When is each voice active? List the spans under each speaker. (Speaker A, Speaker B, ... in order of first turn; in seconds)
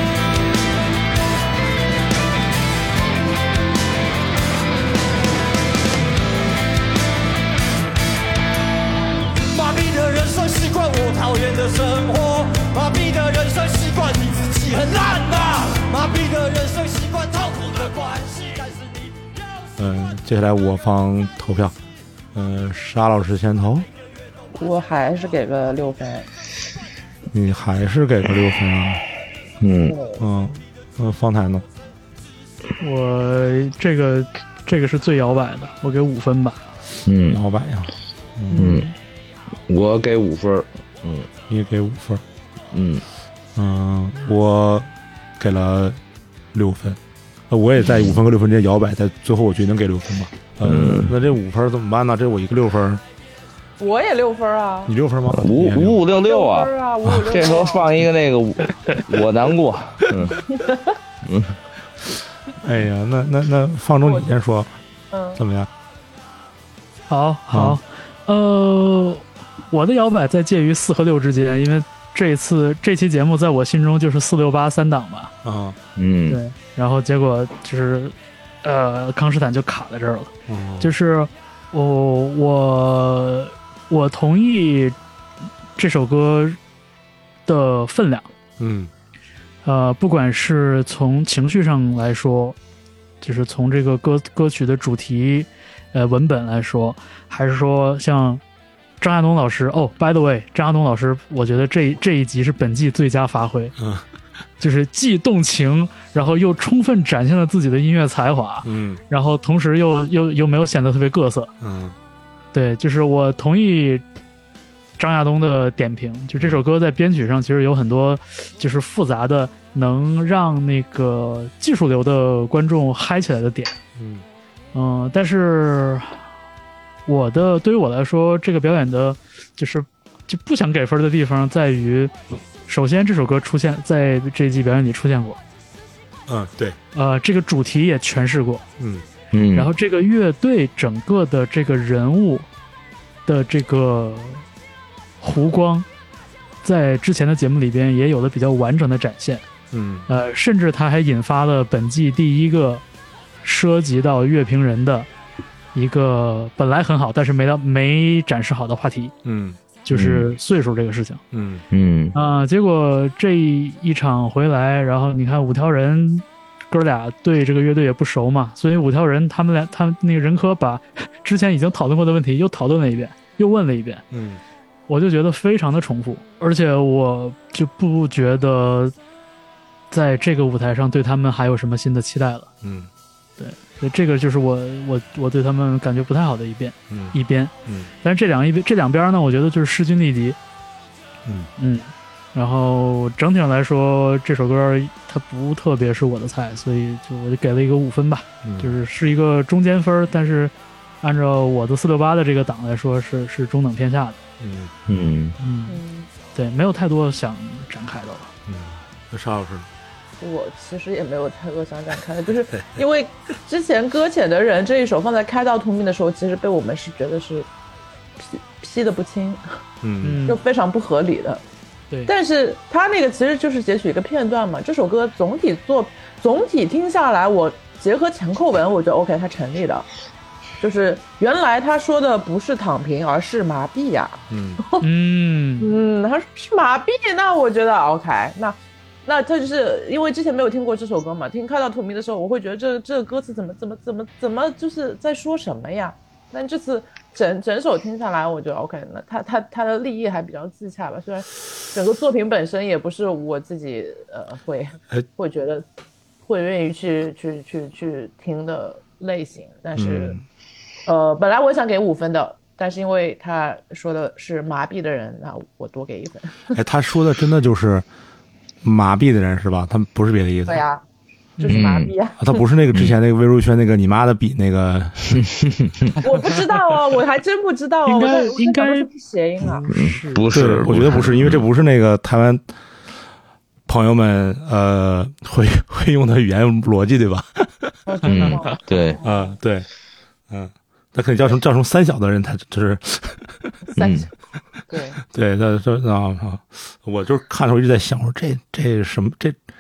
Speaker A: 9.5-19.1
Speaker B: 19.8-21.8, 22.3-23.9, 27.3-29.0, 30.2-31.6, 37.3-38.8, 41.5-42.2, 43.5-46.0, 46.5-53.0, 54.9-56.0, 57.0-57.3, 62.6-64.7, 65.3-65.7, 67.5-67.8, 75.4-75.8, 80.5-80.9, 88.6-88.9, 103.8-104.0, 108.6-109.0, 111.6-112.0, 116.4-116.6, 124.0-124.2, 136.3-136.8, 138.8-139.1, 149.7-150.1, 159.2-159.6, 161.3-161.6, 174.1-174.4, 182.6-182.9, 186.9-187.9, 198.4-198.8, 204.4-204.7, 208.4-209.7, 219.8-220.2, 234.3-234.6, 259.7-260.2, 266.5-267.9, 268.6-270.6, 272.2-275.2, 280.3-282.4, 283.7-288.2, 289.0-289.7, 290.3-293.6, 295.0-299.4
Speaker C: 24.5-26.3, 29.9-30.2, 53.8-54.9, 56.1-57.9, 60.5-60.8, 64.0-64.3, 65.1-65.4, 205.7-206.1, 210.2-217.5, 218.2-219.4, 220.2-221.4, 222.1-229.9, 230.6-234.9, 235.6-255.6, 256.2-260.2, 260.9-266.6, 270.5-270.8, 271.4-272.4, 276.0-279.7, 287.9-289.4, 293.8-294.1, 294.7-295.0
Speaker D: 29.6-29.9, 37.0-37.4, 38.6-38.9, 39.7-41.3, 42.7-43.0, 50.6-51.1, 55.3-56.7, 57.3-60.4, 61.2-61.5, 76.0-76.4, 139.3-139.7, 159.9-160.2, 161.7-162.1, 204.9-205.3, 271.5-271.9, 275.1-275.9, 279.7-281.4, 288.1-289.0, 293.8-294.1
Speaker E: 32.8-36.6, 38.5-38.9, 67.1-75.3, 76.3-85.0, 85.8-86.6, 87.5-88.3, 89.6-92.5, 93.2-98.4, 99.0-103.8, 104.6-111.5, 112.5-114.0, 115.0-123.8, 124.7-126.2, 127.0-132.1, 132.7-135.4, 136.9-138.6, 139.5-142.5, 143.2-144.4, 145.2-145.8, 146.6-149.4, 150.1-152.8, 153.4-155.1, 155.7-159.1, 159.8-161.2, 162.1-174.0, 174.9-178.9, 179.9-182.5, 183.4-190.4, 191.6-204.2, 205.4-205.8, 206.3-208.3, 220.0-220.4, 234.8-235.7, 271.4-271.7, 277.9-278.9, 279.7-280.2